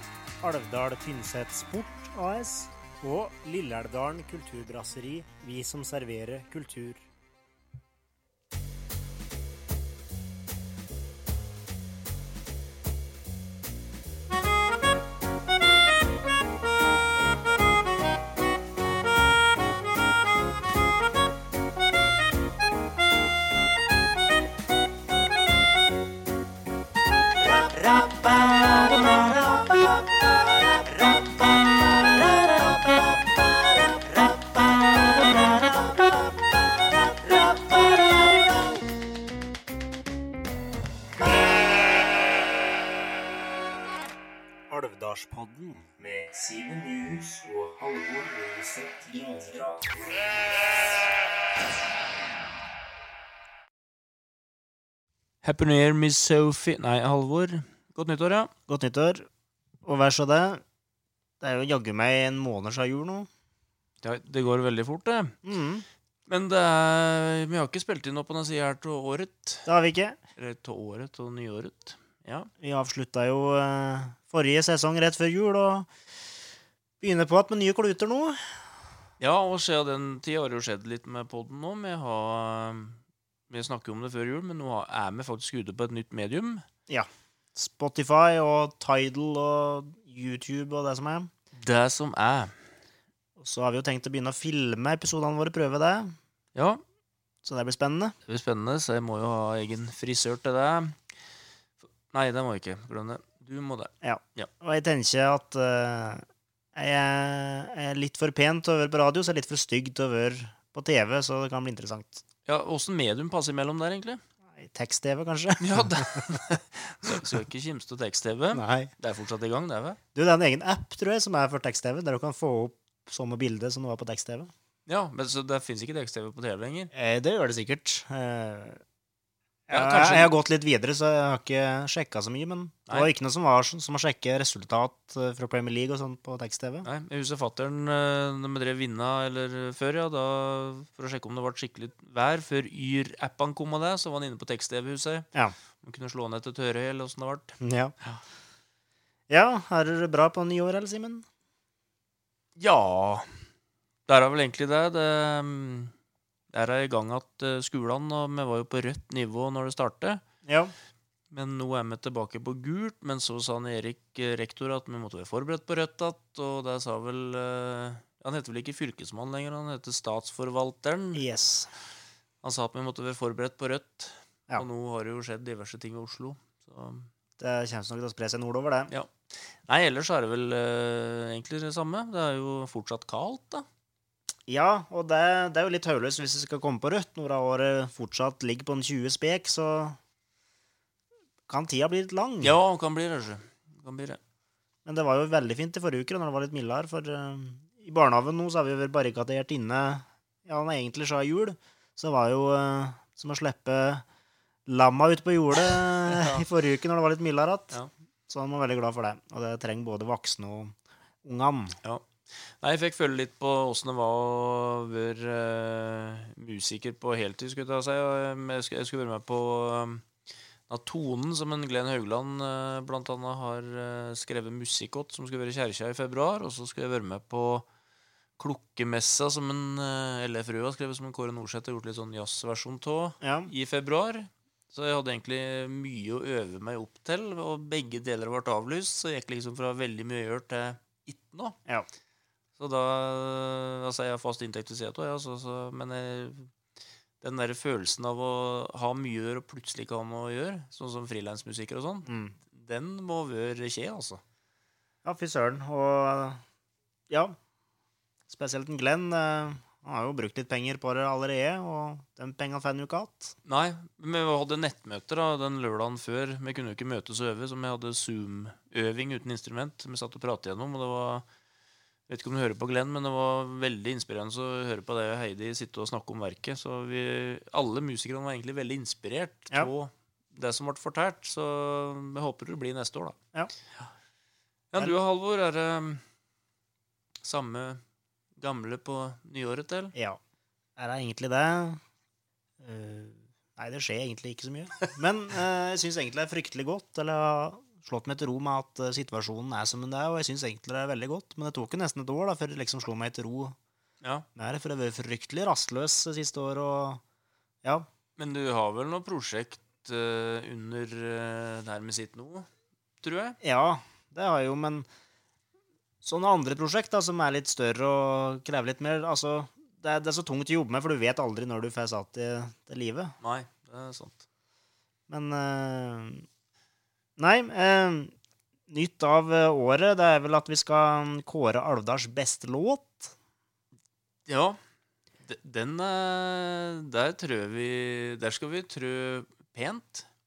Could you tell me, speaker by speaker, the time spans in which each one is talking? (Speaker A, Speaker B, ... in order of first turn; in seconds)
Speaker A: 0.4-7.0, 27.4-38.8, 44.7-50.4, 58.7-59.3, 59.8-60.6, 61.4-63.3, 65.5-65.8, 69.7-70.2, 72.6-75.9, 77.0-78.4, 86.9-91.3, 93.4-96.2, 97.4-98.2, 104.0-112.2, 114.5-116.4, 118.5-118.9, 120.2-124.5, 126.9-128.8, 129.7-136.9, 147.6-147.9, 149.3-151.2, 160.5-160.7, 171.1-171.7, 177.4-178.9, 184.5-190.0, 191.5-192.6, 194.9-204.0, 204.7-211.8, 233.2-233.5, 252.1-252.3, 255.0-256.4, 257.1-257.4, 258.3-263.3, 289.9-290.2, 290.8-291.8, 292.6-303.6, 304.4-307.0, 313.4-314.9, 316.0-323.1, 325.1-326.2, 327.2-328.1, 328.7-333.1
Speaker B: 55.4-58.5, 64.0-65.4, 66.3-69.7, 70.4-72.5, 79.2-83.0, 83.5-86.6, 91.6-92.5, 96.5-96.8, 98.3-101.0, 102.1-104.5, 112.5-114.2, 115.6-120.0, 124.9-126.9, 129.7-130.3, 136.8-145.3, 145.8-148.2, 152.6-153.3, 154.1-155.9, 156.5-160.2, 161.3-171.2, 172.4-177.1, 179.7-183.7, 192.4-194.2, 206.1-206.4, 211.8-220.1, 220.7-227.7, 228.4-241.6, 242.6-246.5, 247.2-254.2, 263.5-271.2, 272.1-283.2, 284.7-286.0, 287.2-287.8, 288.4-289.9, 308.2-312.5, 313.0-313.4, 323.2-324.2, 334.3-334.6, 335.2-340.1